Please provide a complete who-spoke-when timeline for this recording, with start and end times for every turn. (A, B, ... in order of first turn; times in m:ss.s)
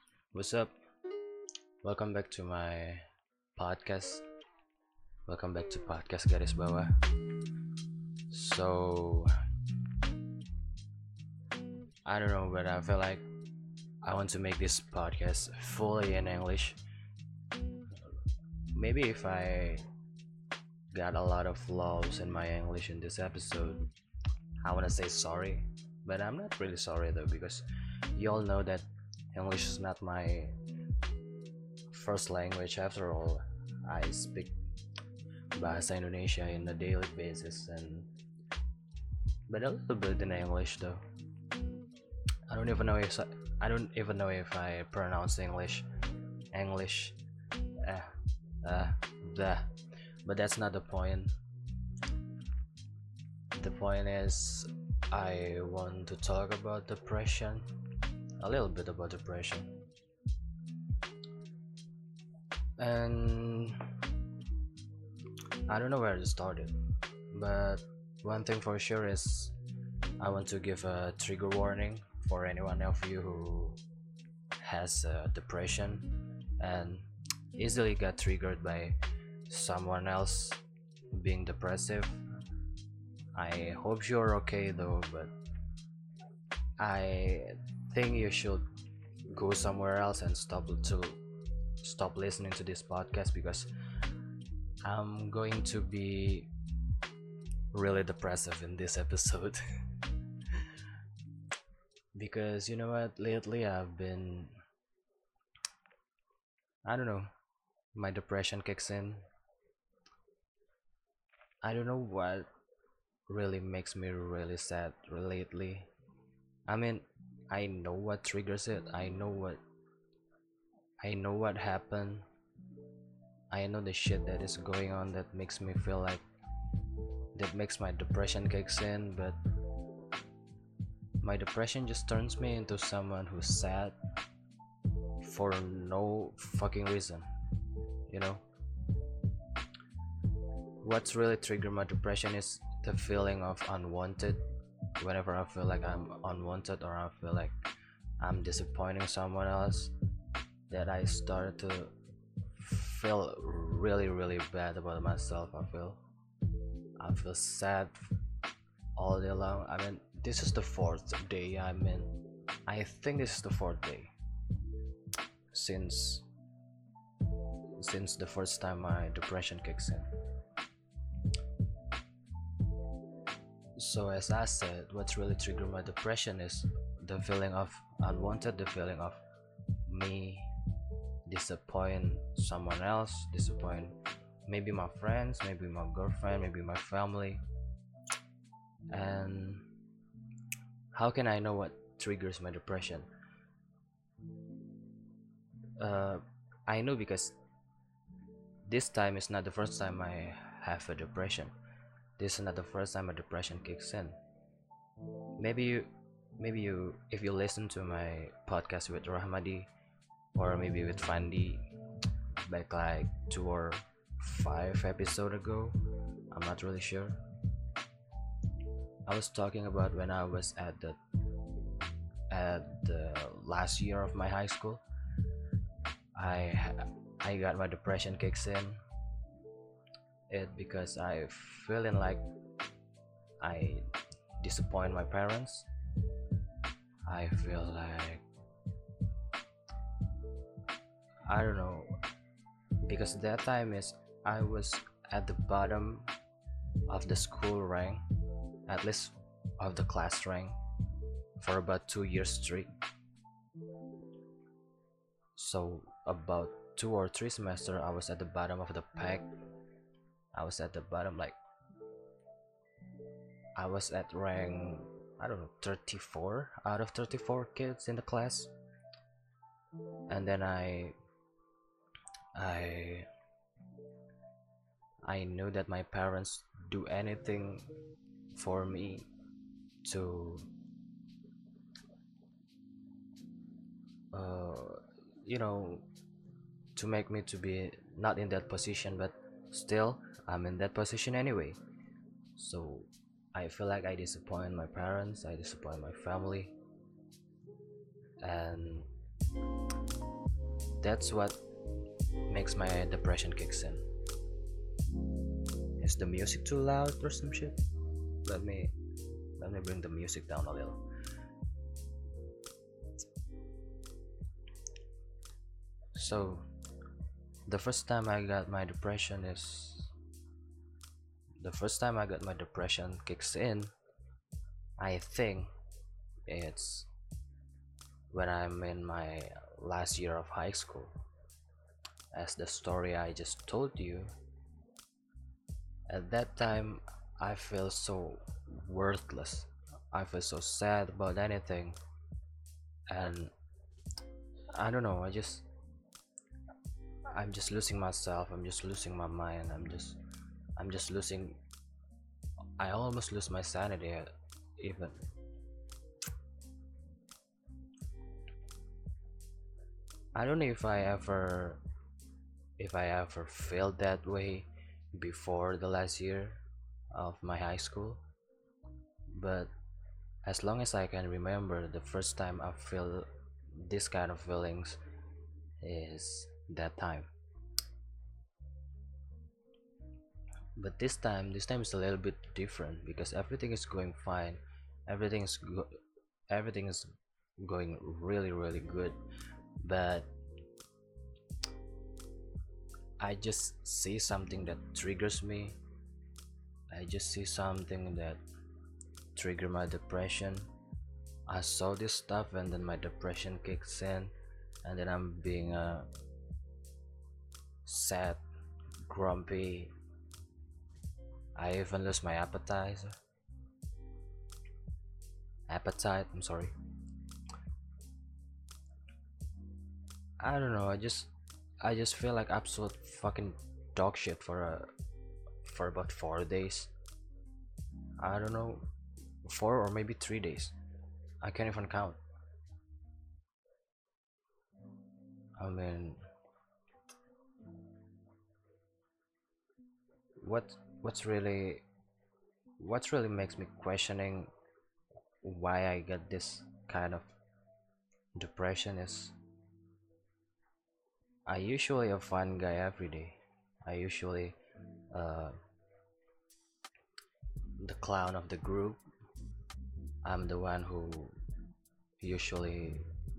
0:00.3-0:00.7 A
0:01.8-0:03.0 A
0:03.6-0:04.2 A
0:05.3-0:07.0 A
0:08.3-0:09.3 A
0:12.0-0:13.2 A
0:14.0-0:16.8 A
0:18.7-0:19.8 A
0:20.9-0:23.9 A
0:24.6-0:30.5 A
0:31.9-0:34.5 A
0:35.5-0:38.1 A
0:39.5-0:41.0 A
0:42.5-0:45.9 A
0:46.5-0:47.2 A
0:47.8-0:51.3 A
0:53.6-0:57.7 A
0:58.4-0:59.8 A
1:02.8-1:03.9 A
1:05.7-1:06.7 A
1:07.3-1:09.6 A
1:10.2-1:13.8 A
1:14.6-1:20.6 A
1:21.1-1:22.2 A
1:23.4-1:25.3 A
1:26.8-1:28.6 A
1:29.3-1:31.2 A
1:31.8-1:33.7 A
1:34.8-1:36.5 A
1:37.7-1:40.7 A
1:42.2-1:44.5 A
1:46.8-1:47.3 A
1:47.9-1:49.2 A
1:51.6-1:52.5 A
1:53.3-1:55.9 A
1:56.7-1:59.6 A
2:01.0-2:02.2 A
2:03.5-2:06.2 A
2:07.3-2:09.4 A
2:11.2-2:14.0 A
2:15.2-2:17.3 A
2:18.1-2:18.4 A
2:20.8-2:24.4 A
2:25.0-2:27.5 A
2:28.2-2:29.9 A
2:30.7-2:31.9 A
2:32.5-2:36.0 A
2:37.0-2:38.1 A
2:39.0-2:44.1 A
2:45.5-2:46.2 A
2:47.8-2:50.1 A
2:53.8-2:59.2 A
2:59.8-3:00.5 A
3:01.2-3:07.4 A
3:08.9-3:09.7 A
3:10.9-3:13.1 A
3:15.8-3:17.4 A
3:18.6-3:21.5 A
3:22.2-3:24.2 A
3:25.4-3:29.7 A
3:30.3-3:31.6 A
3:32.4-3:35.8 A
3:36.3-3:37.2 A
3:39.0-3:41.0 A
3:42.3-3:44.8 A
3:46.2-3:48.8 A
3:50.3-3:52.2 A
3:53.4-3:53.8 A
3:54.4-3:55.7 A
3:57.1-3:58.2 A
4:01.3-4:01.9 A
4:02.8-4:06.1 A
4:06.9-4:08.0 A
4:08.7-4:10.6 A
4:11.4-4:12.7 A
4:15.4-4:19.3 A
4:20.3-4:21.4 A
4:23.6-4:28.5 A
4:30.1-4:30.9 A
4:32.3-4:33.1 A
4:35.0-4:37.7 A
4:38.3-4:39.1 A
4:39.8-4:40.5 A
4:44.1-4:45.9 A
4:46.8-4:51.6 A
4:52.4-4:56.5 A
4:58.2-4:58.9 A
5:00.8-5:01.4 A
5:02.3-5:03.8 A
5:05.8-5:07.6 A
5:08.2-5:08.7 A
5:09.4-5:10.8 A
5:15.9-5:16.4 A
5:17.5-5:19.9 A
5:21.4-5:23.7 A
5:24.8-5:25.5 A
5:26.3-5:26.9 A
5:28.1-5:30.9 A
5:32.1-5:34.1 A
5:35.9-5:41.8 A
5:42.9-5:43.3 A
5:44.5-5:45.4 A
5:47.1-5:50.0 A
5:50.6-5:51.4 A
5:52.6-5:55.0 A
6:00.1-6:01.6 A
6:02.6-6:08.0 A
6:09.1-6:09.5 A
6:10.2-6:14.8 A
6:15.6-6:17.1 A
6:20.6-6:25.8 A
6:26.3-6:29.0 A
6:29.6-6:30.1 A
6:33.0-6:35.6 A
6:36.7-6:38.2 A
6:39.1-6:40.5 A
6:41.3-6:45.9 A
6:47.6-6:48.2 A
6:48.9-6:49.7 A
6:51.4-6:52.9 A
6:55.5-6:56.5 A
7:00.2-7:04.7 A
7:05.4-7:06.7 A
7:08.0-7:08.6 A
7:09.3-7:10.5 A
7:11.2-7:12.0 A
7:15.4-7:16.0 A
7:20.2-7:21.6 A
7:22.6-7:24.3 A
7:25.2-7:27.2 A
7:28.2-7:29.1 A
7:31.3-7:34.4 A
7:34.9-7:35.4 A
7:37.6-7:38.8 A
7:40.0-7:41.1 A
7:42.0-7:42.8 A